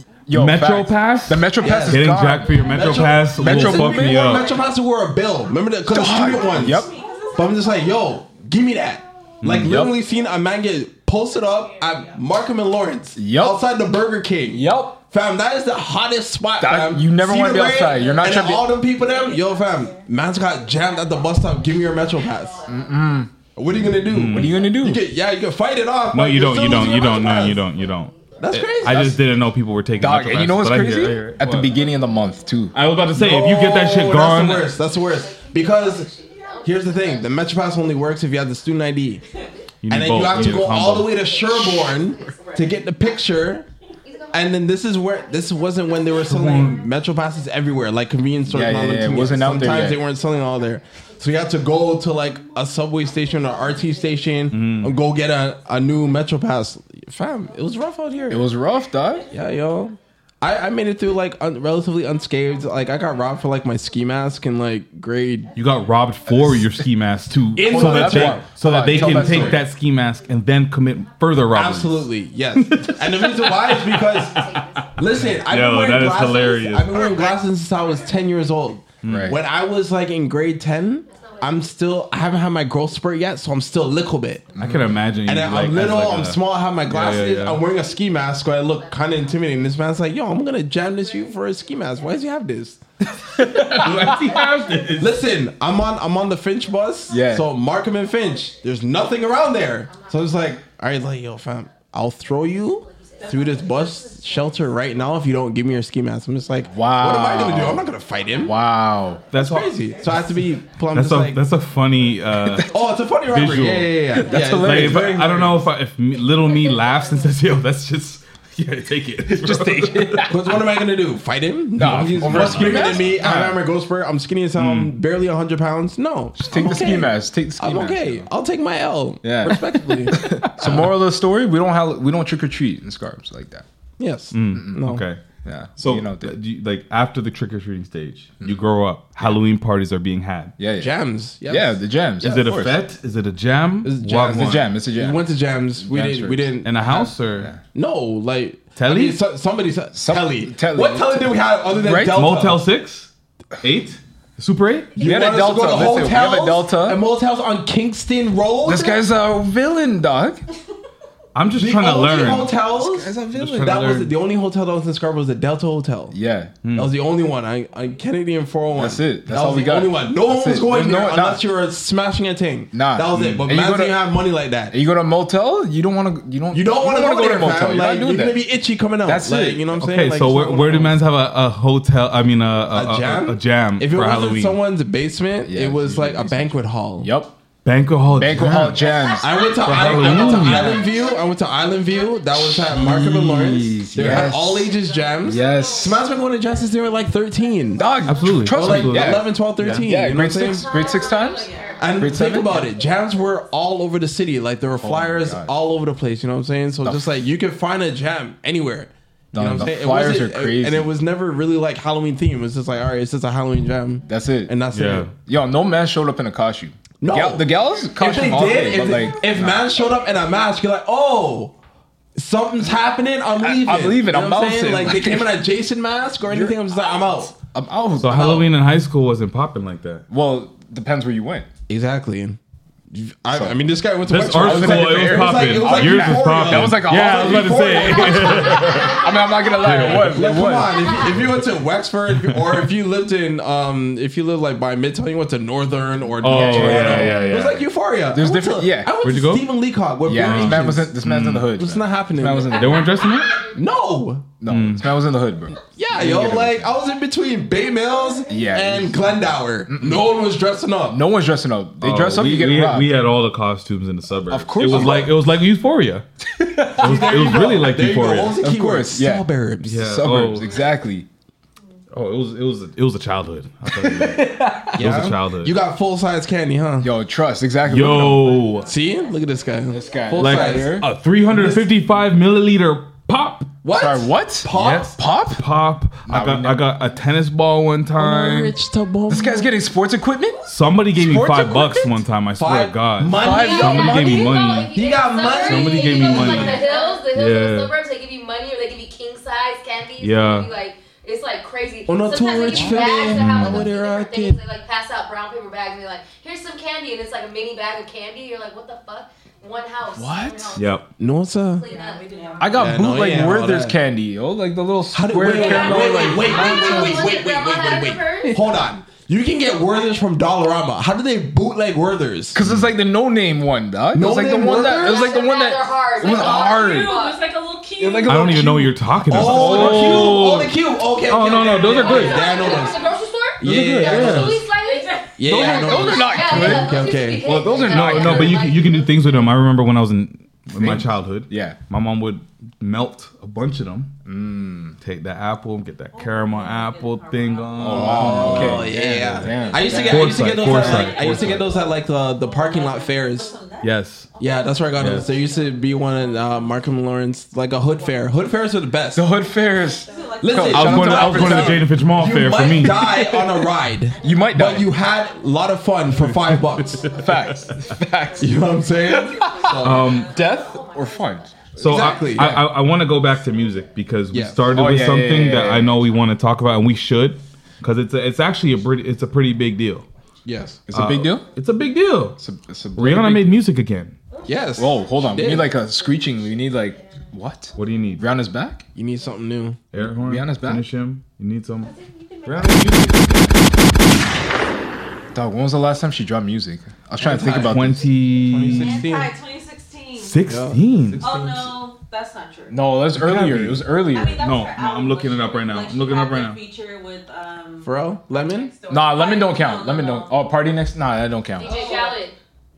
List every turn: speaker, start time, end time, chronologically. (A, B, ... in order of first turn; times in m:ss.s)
0:00.3-0:02.6 A
0:00.3-0:04.5 B
0:01.6-0:22.7 C
0:02.5-0:03.0 D
0:03.2-0:04.4 A
0:04.4-0:04.7 D
0:05.9-0:06.9 A
0:06.3-0:08.2 D
0:09.4-0:09.9 B
0:09.5-0:10.0 A
0:11.6-0:12.2 D
0:13.2-0:13.6 A
0:14.5-0:15.0 A
0:16.6-0:18.8 A
0:19.0-0:20.0 D
0:22.7-0:23.3 A
0:23.6-0:27.7 C
0:24.0-0:24.6 B
0:24.1-0:25.0 A
0:26.1-0:31.8 B
0:26.8-0:28.6 E
0:28.4-0:29.2 C
0:30.0-0:32.8 A
0:31.8-0:32.6 E
0:32.7-0:34.8 B
0:33.1-0:36.1 C
0:34.8-0:37.6 E
0:35.8-0:37.2 D
0:36.6-0:39.2 C
0:39.3-0:39.7 E
0:39.8-0:41.2 B
0:39.9-0:43.7 C
0:41.1-0:43.2 E
0:42.5-0:42.9 D
0:44.0-0:46.8 E
0:44.3-0:58.5 C
0:46.2-0:46.8 B
0:48.5-0:50.0 A
0:51.0-0:51.4 E
0:53.5-0:53.8 D
0:54.5-0:55.0 B
0:58.3-0:59.2 A
0:59.2-0:59.9 D
0:59.3-1:05.6 C
1:05.5-1:17.2 B
1:06.3-1:06.8 A
1:07.5-1:09.6 C
1:07.6-1:09.6 A
1:11.5-1:32.8 C
1:14.0-1:15.0 E
1:19.0-1:19.4 B
1:19.1-1:19.4 A
1:21.1-1:22.0 E
1:24.6-1:24.9 A
1:24.6-1:27.6 B
1:27.7-1:29.5 E
1:31.0-1:32.0 E
1:33.4-1:34.4 A
1:33.5-1:35.2 B
1:34.9-1:48.6 C
1:37.1-1:37.5 A
1:39.8-1:40.6 E
1:42.7-1:43.7 E
1:43.2-1:45.0 D
1:46.7-1:47.9 A
1:48.4-1:49.2 A
1:49.3-1:49.8 B
1:49.3-1:51.4 C
1:49.9-1:50.3 E
1:50.9-2:00.3 B
1:52.6-1:55.6 C
1:54.1-1:55.6 A
1:56.6-1:57.3 E
1:59.3-2:00.4 A
2:00.3-2:10.9 C
2:01.8-2:03.4 A
2:02.0-2:03.6 B
2:04.6-2:05.0 B
2:06.4-2:08.3 A
2:09.2-2:13.6 A
2:14.0-2:15.0 C
2:14.3-2:15.2 B
2:14.5-2:14.8 A
2:15.4-2:16.4 A
2:15.8-2:20.6 B
2:20.6-2:20.9 A
2:20.8-2:22.3 C
2:21.5-2:22.8 A
2:22.2-2:24.8 B
2:23.8-2:27.1 C
2:24.1-2:25.3 A
2:25.8-2:26.5 A
2:26.6-2:27.6 B
2:27.7-2:32.6 C
2:28.8-2:29.2 B
2:29.9-2:32.2 A
2:32.1-2:33.1 B
2:33.6-2:35.0 B
2:35.0-2:37.0 A
2:35.0-2:39.0 C
2:38.6-2:40.4 A
2:41.4-2:42.6 B
2:41.6-2:46.2 C
2:42.3-2:43.7 A
2:43.3-2:44.1 B
2:46.1-2:46.5 A
2:46.6-2:46.9 B
2:46.8-2:54.7 C
2:48.8-2:51.4 A
2:52.7-2:54.0 A
2:54.7-2:58.4 A
2:56.5-3:01.0 C
2:59.0-2:59.7 A
2:59.8-3:04.6 B
3:02.7-3:07.1 C
3:05.5-3:07.4 A
3:07.6-3:08.8 B
3:08.1-3:09.7 A
3:09.0-3:11.3 D
3:09.2-3:17.9 C
3:09.6-3:10.8 B
3:12.4-3:14.7 A
3:15.1-3:18.0 D
3:15.2-3:16.0 A
3:17.8-3:22.7 A
3:18.0-3:19.9 B
3:18.5-3:20.7 C
3:20.5-3:21.9 E
3:20.9-3:22.1 D
3:21.8-3:35.1 C
3:24.8-3:25.5 A
3:26.8-3:27.2 A
3:29.3-3:30.9 A
3:34.1-3:34.6 A
3:34.7-3:35.1 B
3:35.2-3:39.7 A
3:37.0-3:41.5 C
3:42.2-3:47.4 C
3:43.4-3:45.4 A
3:46.3-3:48.5 A
3:48.0-3:50.0 B
3:50.1-3:51.5 A
3:51.7-3:52.4 C
3:52.9-3:58.9 C
3:54.1-3:59.0 B
3:54.2-4:01.0 A
3:58.8-3:59.6 E
3:59.6-4:00.2 B
3:59.8-4:11.0 C
4:01.0-4:01.4 B
4:06.2-4:07.5 B
4:06.3-4:09.0 A
4:09.0-4:09.5 B
4:10.1-4:13.0 A
4:10.2-4:11.5 B
4:11.5-4:12.6 C
4:12.5-4:13.4 B
4:12.8-4:13.6 E
4:13.5-4:14.3 C
4:14.4-4:16.8 A
4:14.5-4:14.9 B
4:15.7-4:21.0 C
4:18.3-4:20.1 A
4:20.9-4:22.9 A
4:21.8-4:26.0 B
4:24.3-4:25.2 A
4:24.6-4:25.1 C
4:26.3-4:27.4 A
4:26.8-4:28.4 B
4:26.8-4:29.9 C
4:28.4-4:31.1 A
4:29.6-4:30.7 B
4:31.9-4:35.6 B
4:33.7-4:34.8 A
4:34.7-4:36.9 C
4:36.8-4:38.4 A
4:37.7-4:38.7 B
4:38.3-4:40.1 D
4:38.6-4:41.7 C
4:39.7-4:40.9 A
4:40.2-4:43.6 B
4:43.6-4:45.0 C
4:43.7-4:45.4 A
4:44.5-4:48.6 B
4:46.1-4:46.8 A
4:48.0-4:49.6 C
4:49.1-4:50.4 A
4:50.5-4:57.8 B
4:50.9-4:52.0 A
4:52.4-4:56.6 C
4:53.1-4:54.5 A
4:53.3-5:10.8 E
4:56.4-4:57.0 D
5:00.0-5:00.5 B
5:01.9-5:04.4 C
5:02.6-5:03.7 B
5:09.9-5:10.6 A
5:10.6-5:10.9 B
5:11.0-5:11.7 C
5:11.5-5:12.4 E
5:11.6-5:12.9 D
5:12.4-5:17.1 A
5:12.5-5:13.8 C
5:14.9-5:22.4 C
5:15.3-5:18.4 E
5:16.3-5:16.8 D
5:22.3-5:27.0 A
5:23.9-5:25.2 C
5:24.7-5:27.3 E
5:26.0-5:28.5 D
5:27.8-5:30.3 A
5:28.1-5:30.6 B
5:29.1-5:32.8 C
5:31.1-5:32.2 B
5:31.6-5:39.3 E
5:33.4-5:34.5 C
5:33.4-5:34.5 B
5:34.6-5:35.4 D
5:35.2-5:37.3 C
5:35.3-5:35.8 B
5:35.3-5:36.9 A
5:37.2-5:43.9 B
5:37.4-5:38.5 A
5:40.6-5:41.6 A
5:44.1-5:44.8 A
5:44.8-5:49.2 B
5:45.9-5:56.7 D
5:47.6-5:50.0 A
5:47.8-5:53.4 C
5:49.8-5:51.5 B
5:53.6-5:54.1 B
5:54.2-5:59.1 C
5:54.8-5:55.0 B
5:57.7-5:58.1 D
5:59.0-6:01.7 A
5:59.4-6:01.5 D
6:00.2-6:07.0 C
6:00.5-6:03.3 B
6:04.0-6:04.8 A
6:05.9-6:07.7 B
6:06.9-6:12.6 A
6:08.2-6:10.0 C
6:08.6-6:10.7 D
6:09.6-6:10.2 B
6:10.1-6:11.5 E
6:11.6-6:19.9 B
6:11.6-6:12.4 C
6:14.1-6:14.5 C
6:14.5-6:15.9 A
6:20.2-6:20.6 C
6:20.7-6:21.3 A
6:20.7-6:22.2 B
6:22.2-6:23.4 A
6:22.8-6:24.0 B
6:24.2-6:25.6 C
6:24.6-6:28.6 A
6:27.6-6:28.1 B
6:28.8-6:29.6 C
6:29.7-6:31.7 B
6:29.8-6:30.6 A
6:31.6-6:32.9 D
6:32.2-6:33.4 A
6:35.1-6:37.9 A
6:37.0-6:39.1 C
6:37.2-6:38.9 B
6:38.4-6:40.3 D
6:40.0-6:41.2 B
6:40.2-6:41.6 C
6:41.0-6:42.7 D
6:42.5-6:44.3 A
6:42.9-6:46.4 B
6:43.8-6:50.3 D
6:47.6-6:48.5 C
6:48.7-6:51.6 A
6:51.4-6:52.2 E
6:51.4-6:52.0 D